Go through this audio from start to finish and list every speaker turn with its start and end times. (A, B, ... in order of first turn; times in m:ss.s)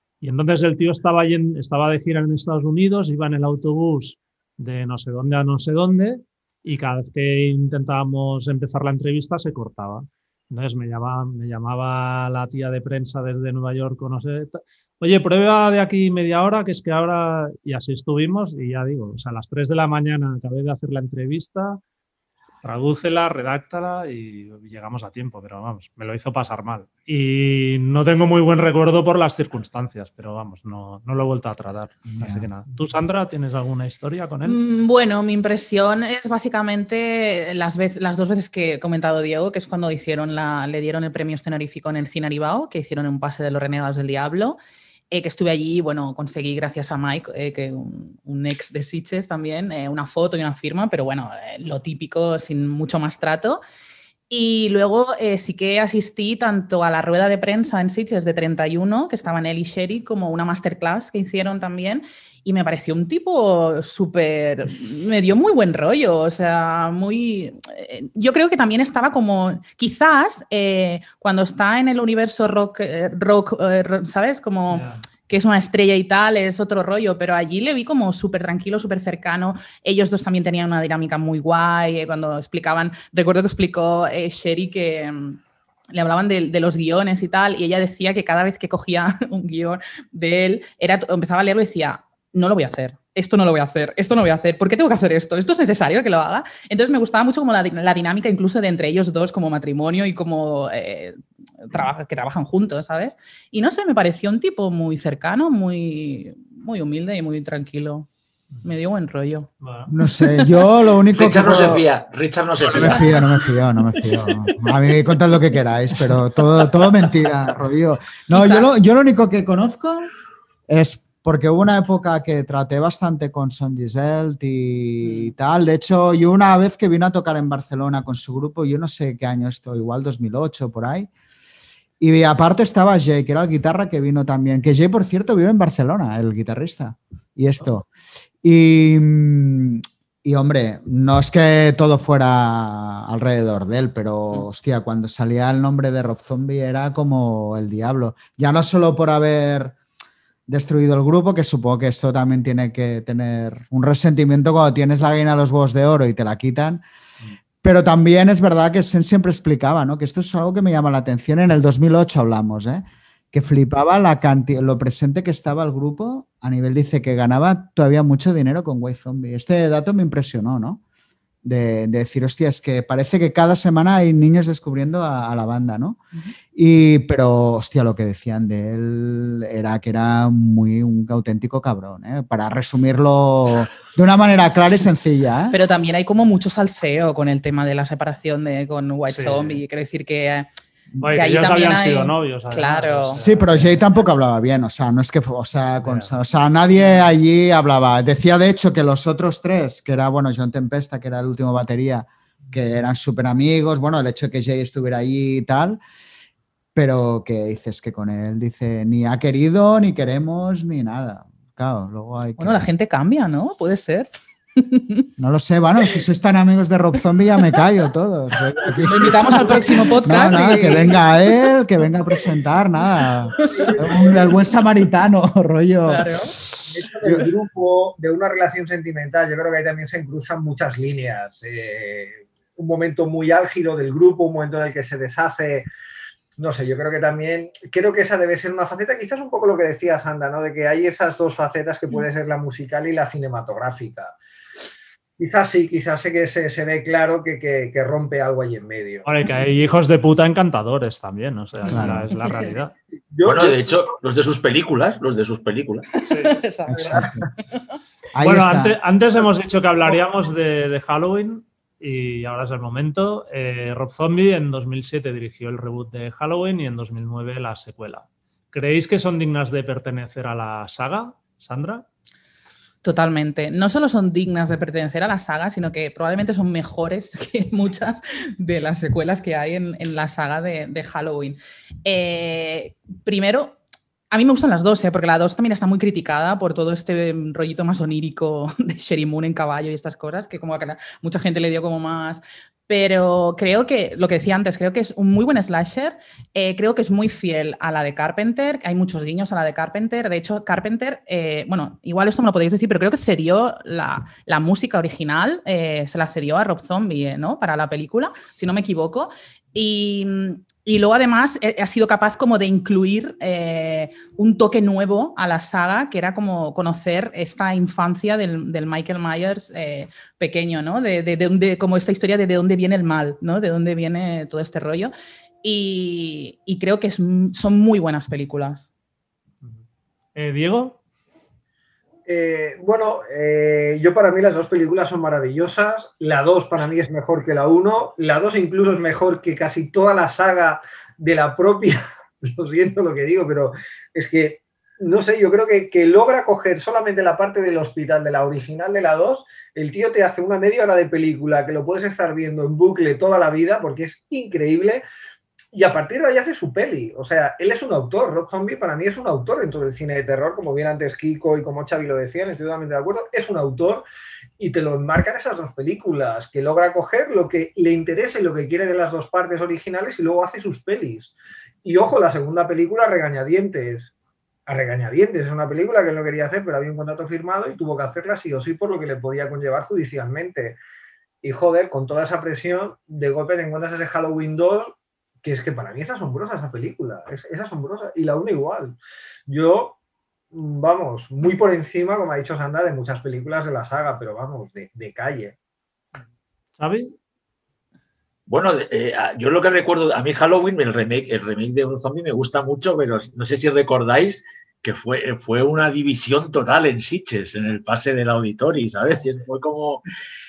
0:00.2-0:21.8 A
0:22.6-0:34.6 A
0:32.1-0:32.5 B
0:34.4-0:44.6 C
0:45.1-0:53.6 C
0:54.3-1:25.4 C
1:14.7-1:15.0 A
1:25.9-1:48.1 C
1:48.6-1:49.5 C
1:49.6-1:49.9 A
1:49.9-1:51.8 B
1:50.2-1:50.7 C
1:51.2-1:53.3 D
1:52.6-2:00.1 B
1:58.3-1:58.7 C
2:00.7-2:11.1 B
2:05.0-2:05.3 C
2:12.0-2:17.9 B
2:18.4-2:29.8 B
2:30.5-2:36.8 B
2:37.6-2:50.8 B
2:51.4-2:56.0 B
2:56.5-3:05.6 B
3:05.5-3:10.5 C
3:09.1-3:09.6 A
3:11.0-3:13.8 A
3:11.1-3:13.2 C
3:13.2-3:25.8 B
3:15.8-3:16.1 A
3:16.8-3:17.1 A
3:26.8-3:32.7 B
3:32.4-3:35.1 C
3:35.2-3:46.5 B
3:37.4-3:37.6 C
3:38.6-3:41.3 C
3:43.4-3:44.4 C
3:43.5-3:44.2 E
3:45.9-3:46.4 C
3:46.7-3:55.7 E
3:56.4-4:04.2 E
4:05.2-4:09.1 E
4:09.0-4:12.7 A
4:11.7-4:12.1 B
4:12.2-4:12.6 C
4:13.1-4:13.9 E
4:13.2-4:15.9 D
4:16.0-4:17.2 C
4:16.1-4:16.4 A
4:16.7-4:17.3 B
4:18.1-4:18.8 B
4:18.2-4:31.9 A
4:32.8-4:43.6 C
4:44.1-5:28.7 C
5:30.2-5:30.8 A
5:32.1-5:54.8 E
5:55.5-6:03.8 E
6:04.4-6:11.1 E
6:11.6-6:13.9 E
6:14.5-6:20.6 E
6:21.2-6:28.8 E
6:29.3-6:29.8 E
6:30.3-6:35.3 E
6:36.6-6:36.9 A
6:38.3-6:49.9 D